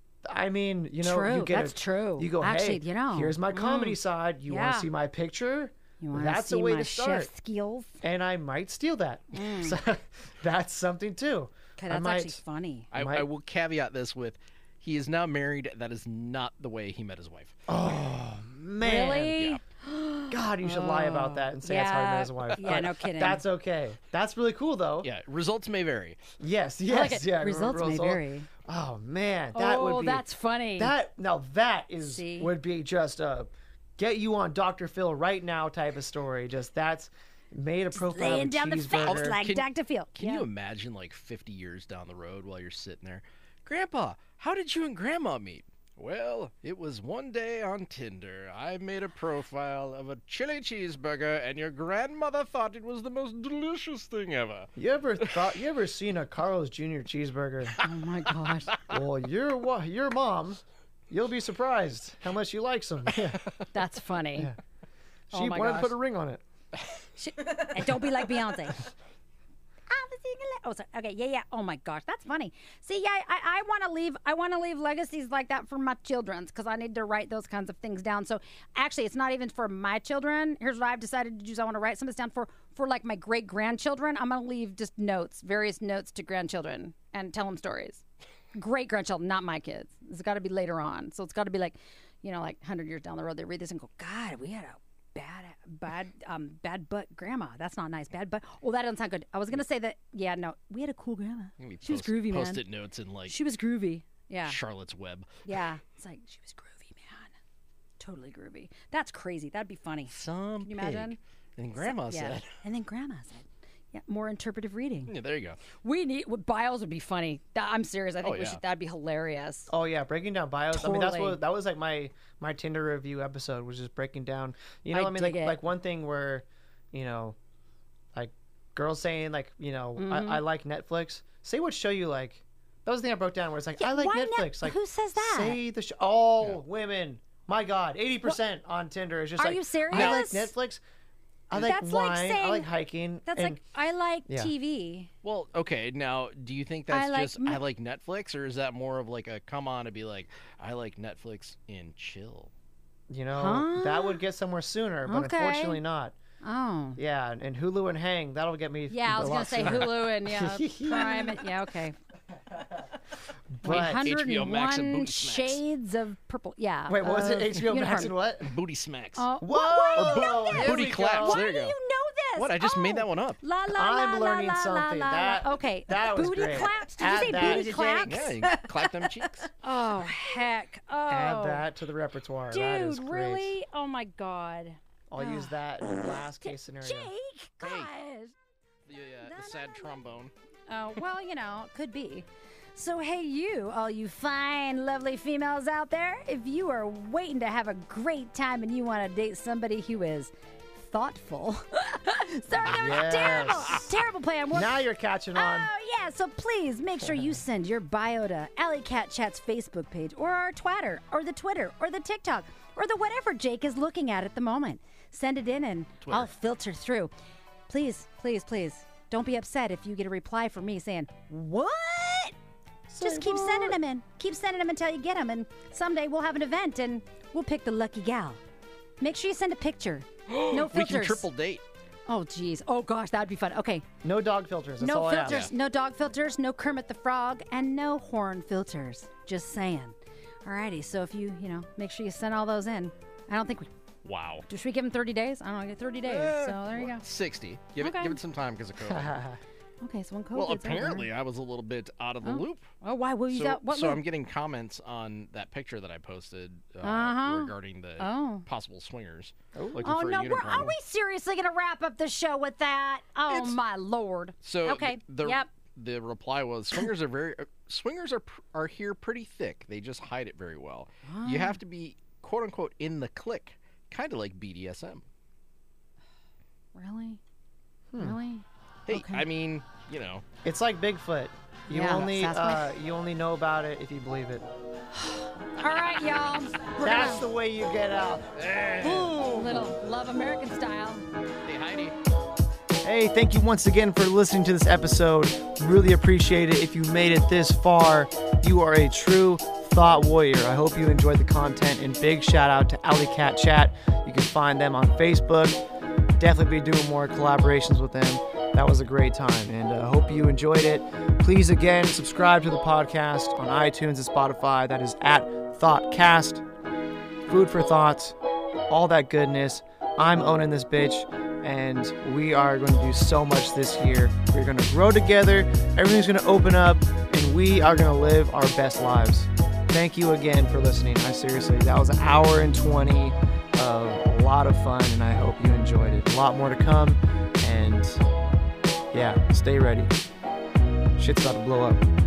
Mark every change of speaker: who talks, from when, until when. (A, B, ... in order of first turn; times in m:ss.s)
0:00.2-0:07.3 A
0:01.0-0:04.9 B
0:06.0-0:08.0 B
0:08.0-0:12.4 A
0:09.3-0:09.8 B
0:11.8-0:12.9 B
0:12.9-0:13.3 A
0:12.9-0:17.6 C
0:17.7-0:19.4 A
0:18.8-0:23.4 B
0:20.3-0:25.1 A
0:25.0-0:26.2 C
0:26.4-0:39.4 A
0:26.9-0:28.5 B
0:29.5-0:30.9 B
0:32.0-0:32.5 B
0:37.9-0:40.4 B
0:39.0-0:55.5 C
0:54.8-0:57.8 A
0:57.8-0:58.7 B
0:58.8-1:03.4 A
1:03.7-1:04.5 B
1:05.3-1:06.4 A
1:05.3-1:05.9 B
1:07.2-1:08.9 B
1:09.9-1:28.0 B
1:28.5-1:42.6 B
1:41.6-1:43.4 C
1:43.3-1:44.6 B
1:44.5-1:45.3 C
1:45.5-1:47.3 B
1:48.0-1:51.2 B
1:50.1-1:52.5 C
1:51.8-1:55.1 B
1:55.1-1:55.6 C
1:55.8-1:59.7 B
1:58.2-1:58.6 C
1:59.7-2:07.4 A
2:00.7-2:01.4 B
2:04.9-2:05.6 B
2:08.1-2:20.8 A
2:10.0-2:10.4 B
2:13.8-2:15.6 B
2:19.4-2:20.5 B
2:19.9-2:20.2 C
2:21.5-2:23.6 A
2:21.5-2:22.7 B
2:23.3-2:25.1 B
2:25.2-2:32.5 C
2:26.9-2:27.6 B
2:33.1-2:36.2 A
2:33.4-2:34.2 B
2:35.1-2:35.8 B
2:36.4-2:37.0 B
2:37.0-2:41.5 A
2:38.9-2:42.0 B
2:43.6-2:44.1 A
2:43.6-2:48.1 B
2:43.7-2:45.6 C
2:46.9-2:48.5 A
2:48.4-2:49.3 C
2:49.2-2:58.6 B
2:49.4-2:51.5 A
2:49.9-2:51.8 C
2:52.4-2:53.4 C
2:53.7-2:58.3 A
2:57.3-2:59.5 C
2:59.6-3:01.6 B
3:01.1-3:03.6 A
3:02.5-3:08.4 B
3:05.1-3:07.1 A
3:07.6-3:07.9 C
3:08.9-3:10.3 C
3:09.2-3:10.0 B
3:10.7-3:24.8 B
3:22.6-3:23.9 A
3:24.5-3:25.7 A
3:25.4-3:37.1 B
3:27.0-3:27.4 A
3:37.7-3:42.4 B
3:42.9-3:43.8 A
3:43.0-3:48.4 B
3:49.0-3:51.3 B
3:50.3-3:51.6 C
3:52.1-3:53.8 B
3:54.0-3:55.5 A
3:54.8-4:03.7 B
3:55.3-3:55.5 C
4:04.0-4:04.4 C
4:04.5-4:07.0 B
4:06.0-4:09.2 C
4:07.8-4:08.2 B
4:08.9-4:09.4 A
4:09.8-4:11.1 B
4:10.4-4:12.7 C
4:12.2-4:14.0 B
4:13.3-4:20.8 C
4:16.8-4:18.4 B
4:19.6-4:19.8 A
4:19.8-4:25.5 B
4:23.3-4:23.6 C
4:24.4-4:35.0 C
4:31.0-4:31.6 B
4:36.8-4:37.2 B
4:37.9-4:38.2 A
4:38.0-4:39.2 B
4:38.9-4:40.2 C
4:40.4-4:44.5 A
4:41.7-4:42.7 B
4:44.9-4:47.3 B
4:46.8-4:49.5 A
4:48.4-4:49.2 C
4:48.8-4:51.0 B
4:51.5-4:52.0 C
4:52.8-5:05.6 A
5:06.2-5:16.4 A
5:17.3-5:18.2 A
5:18.7-5:38.0 A
5:38.9-5:40.0 A
5:41.0-5:41.8 A